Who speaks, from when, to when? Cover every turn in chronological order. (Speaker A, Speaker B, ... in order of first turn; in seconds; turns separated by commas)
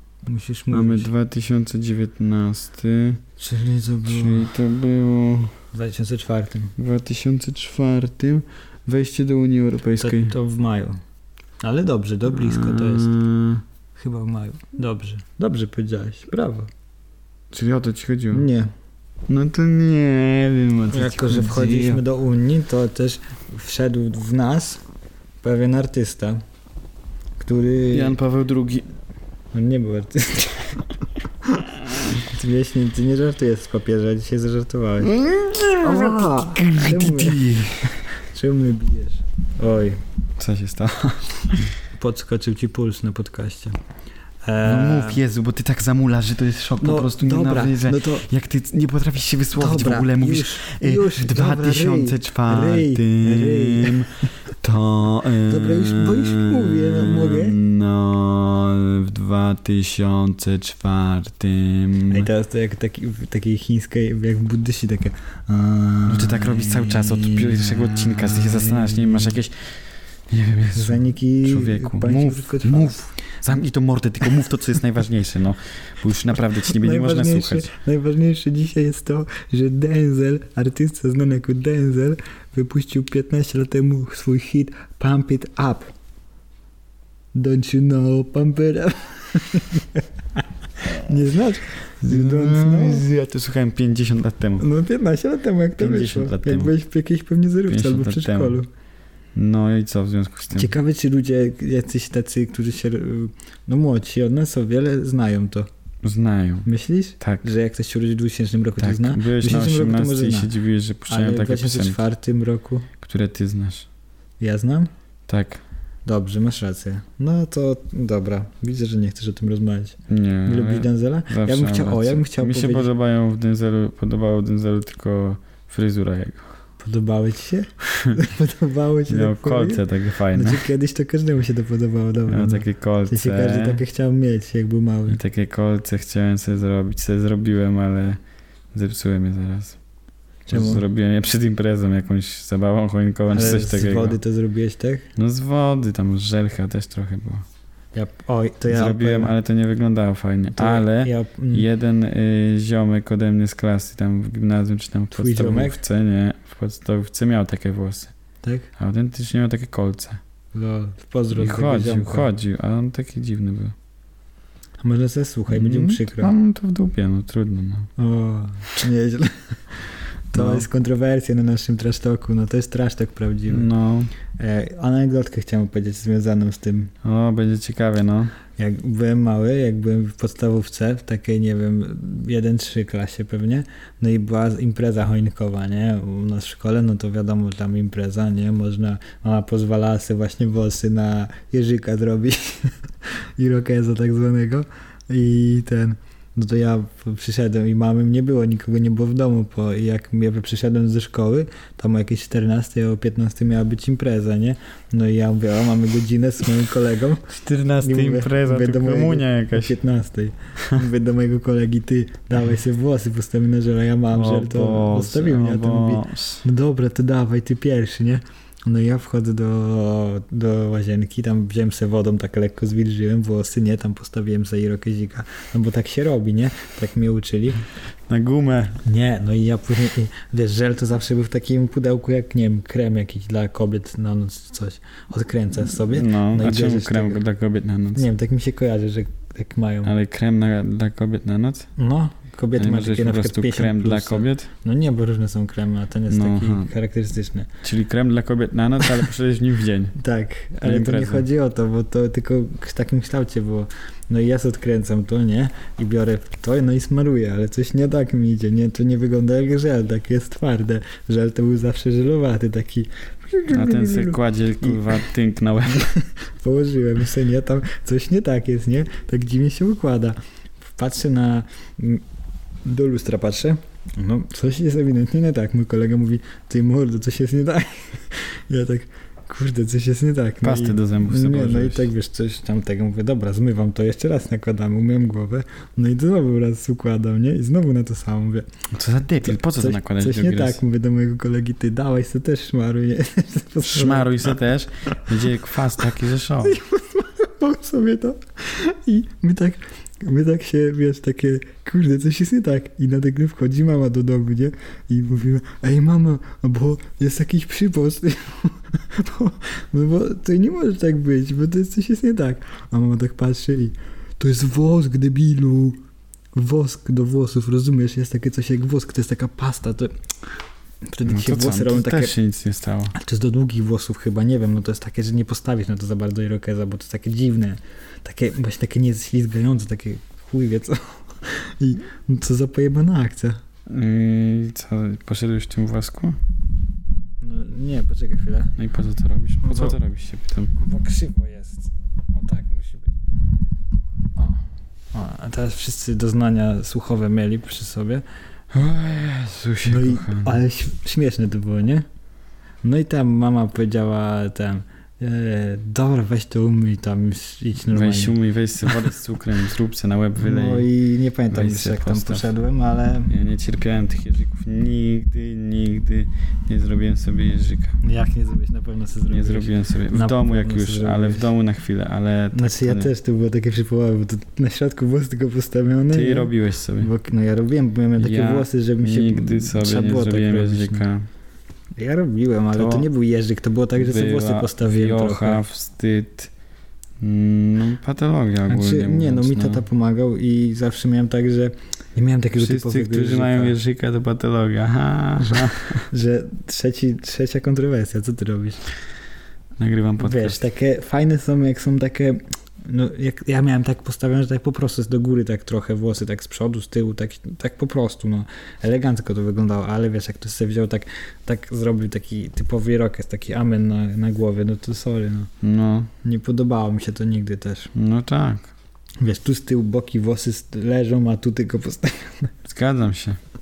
Speaker A: 0.2-1.1, Speaker B: 0.7-3.2, Speaker A: 3.4-4.5, Speaker B: 4.0-5.6, Speaker A: 5.7-6.7, Speaker B: 6.8-10.3, Speaker A: 10.0-11.0, Speaker A: 11.6-13.1, Speaker B: 12.3-13.6, Speaker A: 13.9-16.7, Speaker B: 17.5-18.5, Speaker A: 18.3-18.7, Speaker B: 19.3-22.0, Speaker A: 20.9-24.8, Speaker A: 25.4-26.4, Speaker A: 27.4-28.2, Speaker B: 27.9-28.9, Speaker A: 29.5-30.9, Speaker A: 31.6-35.2, Speaker B: 35.0-37.9, Speaker A: 35.8-40.0, Speaker B: 40.4-41.7, Speaker A: 42.0-43.8, Speaker A: 44.4-45.2, Speaker B: 44.6-62.3, Speaker A: 46.8-48.3, Speaker A: 49.6-54.1, Speaker A: 55.5-57.6, Speaker A: 62.1-69.3, Speaker B: 66.1-77.7, Speaker A: 70.7-73.0, Speaker A: 76.6-85.9, Speaker A: 87.3-90.0, Speaker A: 90.8-93.0, Speaker B: 92.0-94.6, Speaker A: 94.6-98.7, Speaker B: 95.8-96.7, Speaker B: 97.7-98.6, Speaker B: 99.3-100.7, Speaker A: 100.5-105.7, Speaker B: 106.0-106.7, Speaker A: 106.7-110.5, Speaker B: 107.2-107.5, Speaker B: 108.8-112.0, Speaker A: 111.1-112.9, Speaker B: 113.0-113.8, Speaker A: 114.4-114.9, Speaker B: 115.3-115.6, Speaker A: 116.0-122.9, Speaker B: 120.1-126.5, Speaker A: 126.8-135.2, Speaker B: 129.1-130.6, Speaker B: 132.3-133.8, Speaker B: 135.1-138.2, Speaker B: 138.7-139.8, Speaker A: 140.5-140.8, Speaker B: 140.5-144.2, Speaker A: 143.3-145.1, Speaker B: 145.2-147.4, Speaker A: 147.9-149.3, Speaker B: 148.7-158.1, Speaker A: 150.5-151.6, Speaker A: 155.1-155.8, Speaker A: 158.4-158.7, Speaker B: 158.8-160.2, Speaker A: 160.5-162.3, Speaker B: 161.3-163.7, Speaker A: 164.8-166.3, Speaker B: 165.5-167.9, Speaker A: 168.0-173.7, Speaker B: 170.3-170.7, Speaker B: 173.5-174.1, Speaker A: 174.3-176.9, Speaker B: 177.0-178.3, Speaker A: 178.6-192.8, Speaker A: 193.4-227.6, Speaker B: 207.3-209.7, Speaker B: 214.1-216.4, Speaker B: 228.1-228.8, Speaker A: 228.8-237.2, Speaker B: 235.7-238.0, Speaker A: 237.9-239.9, Speaker B: 239.8-241.7, Speaker A: 241.8-247.5, Speaker B: 242.6-244.5, Speaker B: 246.1-246.7, Speaker B: 247.6-249.9, Speaker A: 249.9-265.0, Speaker B: 250.6-251.3, Speaker B: 263.5-265.9, Speaker A: 265.9-270.2, Speaker A: 270.8-272.0, Speaker A: 272.6-288.4, Speaker B: 280.4-281.9, Speaker B: 288.7-290.6, Speaker A: 289.2-294.4, Speaker B: 293.6-296.6, Speaker A: 296.4-315.8, Speaker A: 316.3-319.9, Speaker A: 320.9-322.1, Speaker B: 321.1-322.9, Speaker A: 322.9-333.4, Speaker B: 333.7-336.2, Speaker A: 337.2-338.6, Speaker B: 338.6-340.5, Speaker A: 339.4-339.8, Speaker A: 340.5-342.9, Speaker A: 344.2-344.4, Speaker A: 344.9-348.0, Speaker B: 348.5-350.3, Speaker A: 349.6-351.9, Speaker A: 352.6-358.1, Speaker B: 357.7-360.7, Speaker A: 360.2-363.1, Speaker B: 361.3-362.3, Speaker B: 363.1-367.8, Speaker A: 367.8-371.3, Speaker B: 369.1-372.9, Speaker A: 372.3-380.9, Speaker B: 375.9-376.9, Speaker B: 378.0-381.1, Speaker A: 381.8-385.4, Speaker B: 382.5-382.9, Speaker B: 383.8-386.3, Speaker B: 387.0-389.6, Speaker A: 388.5-393.6, Speaker B: 392.4-395.9, Speaker A: 395.2-398.6, Speaker B: 399.6-400.4, Speaker A: 400.0-415.3, Speaker B: 415.4-415.9, Speaker A: 416.0-417.7, Speaker B: 417.7-418.5, Speaker A: 419.0-422.3, Speaker B: 422.4-423.2